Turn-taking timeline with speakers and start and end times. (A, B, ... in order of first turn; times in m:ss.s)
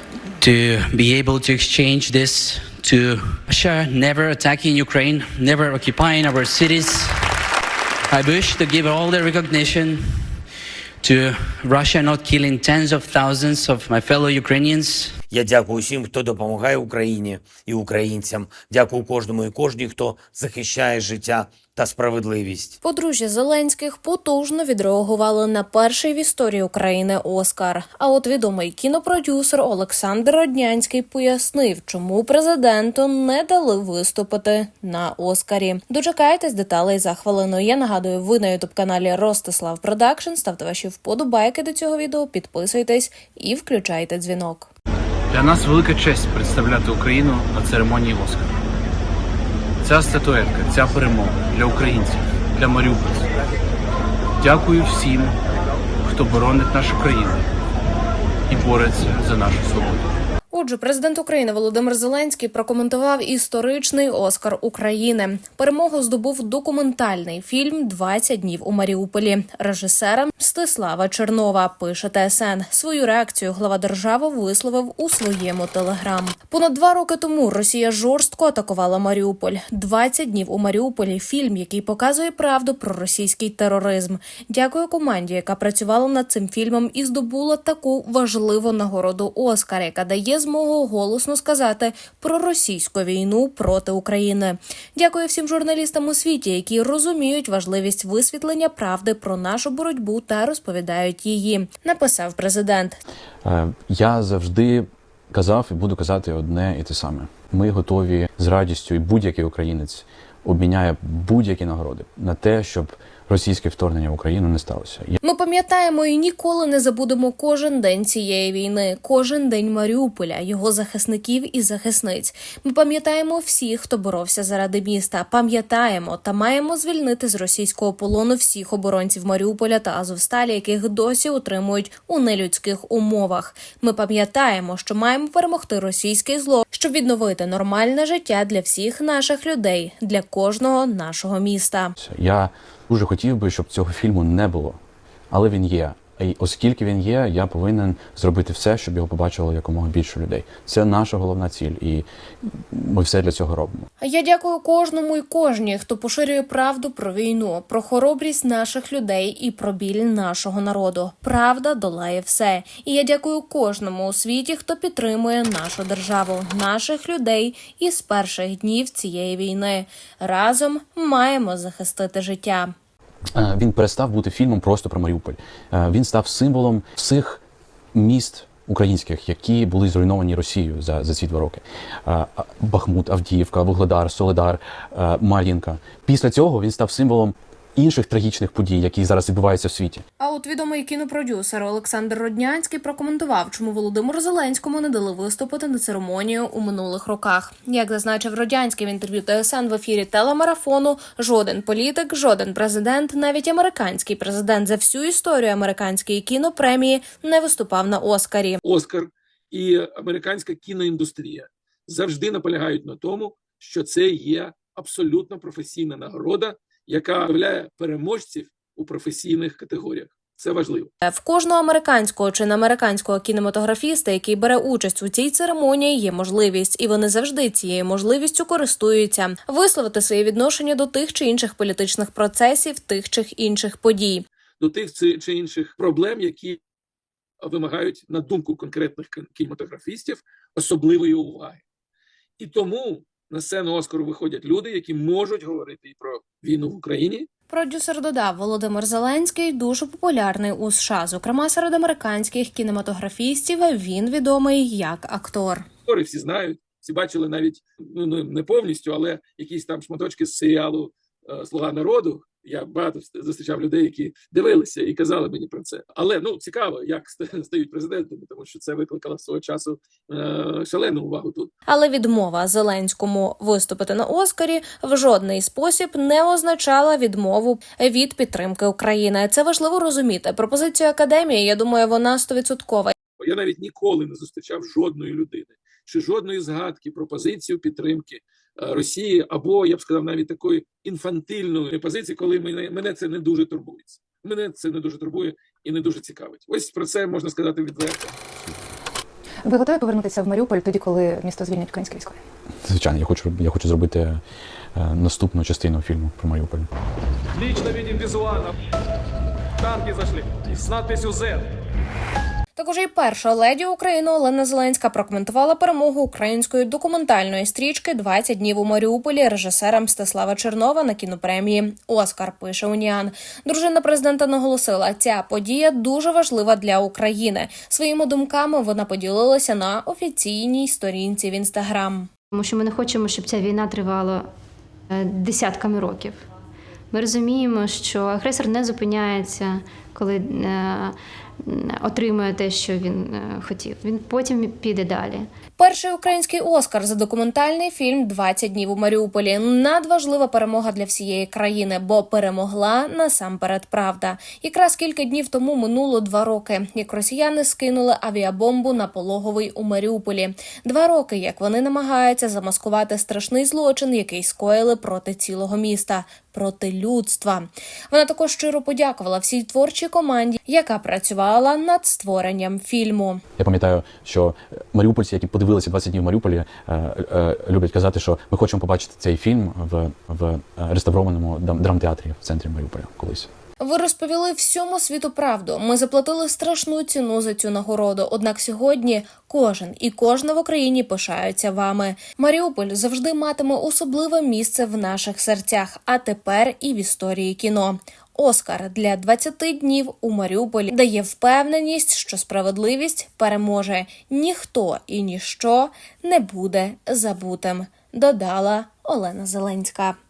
0:00.4-0:07.2 A
0:08.1-0:10.3 A
0:11.0-0:15.2 A
0:15.3-0:22.7 B
0:22.8-0:44.7 C
0:45.3-0:48.5 D
0:49.8-0:53.3 D
0:54.4-0:55.3 D
0:56.0-0:57.4 D
0:58.5-1:00.0 D
1:00.5-1:43.0 C
1:43.4-1:55.2 E
1:55.2-2:22.0 C
2:22.0-2:24.8 E
2:25.3-2:33.9 E
2:34.0-2:52.7 C
2:53.3-2:57.4 E
2:57.9-3:10.0 E
3:10.2-3:28.6 C
3:28.6-3:40.9 F
3:41.0-3:54.2 C
3:54.6-3:56.6 F
3:57.4-4:01.6 F
4:02.4-4:07.3 F
4:07.5-4:15.6 C
4:15.9-4:31.5 F
4:31.7-4:42.9 C
4:43.2-4:58.2 F
4:59.4-5:02.2 G
5:02.6-5:04.2 E
5:04.7-5:06.7 E
5:07.4-5:08.5 H
5:09.6-5:11.5 H
5:12.6-5:32.1 C
5:32.3-5:34.3 I
5:34.9-5:36.2 I
5:36.9-5:45.3 I
5:45.6-6:13.2 C
6:13.4-6:23.3 E
6:23.6-6:50.0 C